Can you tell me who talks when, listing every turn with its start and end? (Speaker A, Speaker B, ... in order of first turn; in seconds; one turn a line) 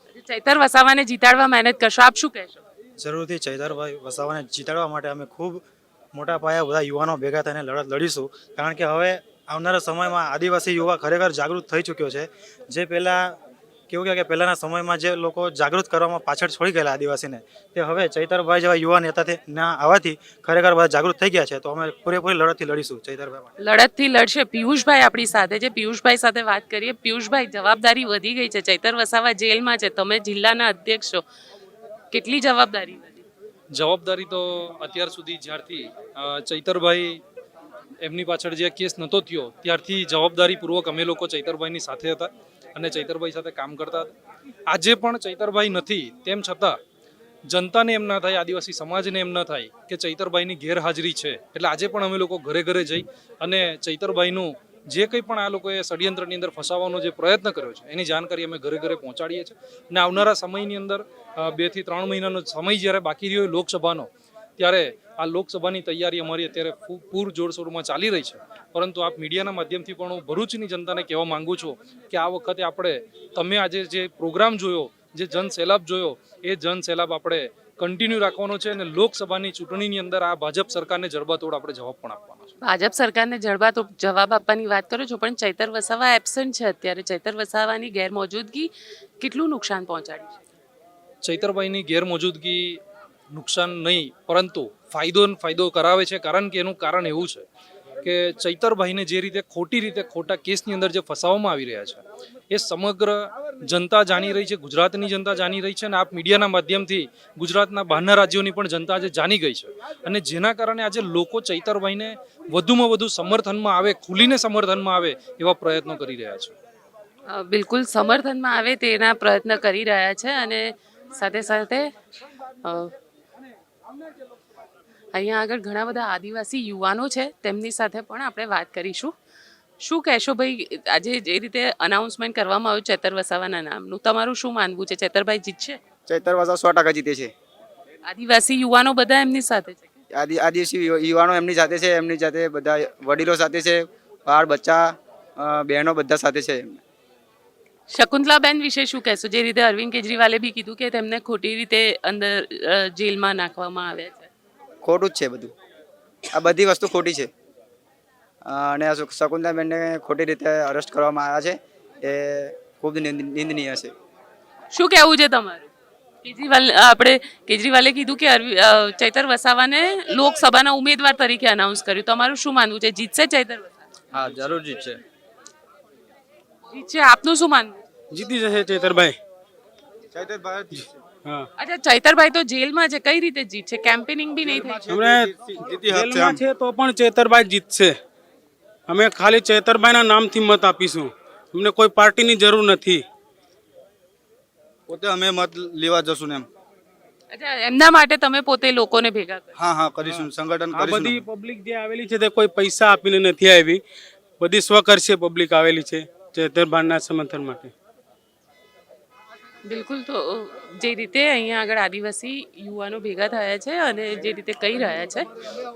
Speaker A: 0.1-2.6
Speaker B: 3.0-13.4
Speaker B: 13.9-23.5
Speaker A: 23.6-31.2
Speaker A: 32.1-33.2
Speaker C: 33.7-37.2
Speaker C: 38.0-44.1
Speaker C: 44.7-46.8
Speaker C: 47.5-82.5
Speaker A: 82.6-90.3
Speaker C: 91.2-92.8
Speaker C: 93.3-97.5
Speaker C: 98.0-116.5
Speaker A: 117.3-121.9
Speaker A: 122.6-122.9
Speaker A: 125.2-129.1
Speaker A: 129.8-135.8
Speaker D: 136.1-137.3
Speaker A: 138.1-140.0
Speaker D: 140.2-144.8
Speaker D: 145.4-146.6
Speaker A: 147.9-154.3
Speaker D: 154.8-155.5
Speaker D: 156.4-157.3
Speaker D: 158.5-161.6
Speaker D: 162.1-163.9
Speaker A: 164.7-165.7
Speaker A: 166.2-173.8
Speaker E: 174.1-174.9
Speaker A: 176.7-177.8
Speaker F: 178.1-179.2
Speaker E: 180.1-180.9
Speaker F: 180.8-181.5
Speaker A: 181.6-184.9
Speaker E: 184.6-186.4
Speaker F: 184.9-185.3
Speaker F: 185.9-188.0
Speaker F: 188.9-193.1
Speaker E: 194.9-196.5
Speaker A: 197.3-199.6
Speaker E: 199.6-201.3
Speaker F: 200.1-203.8
Speaker F: 204.4-207.7
Speaker A: 209.7-215.3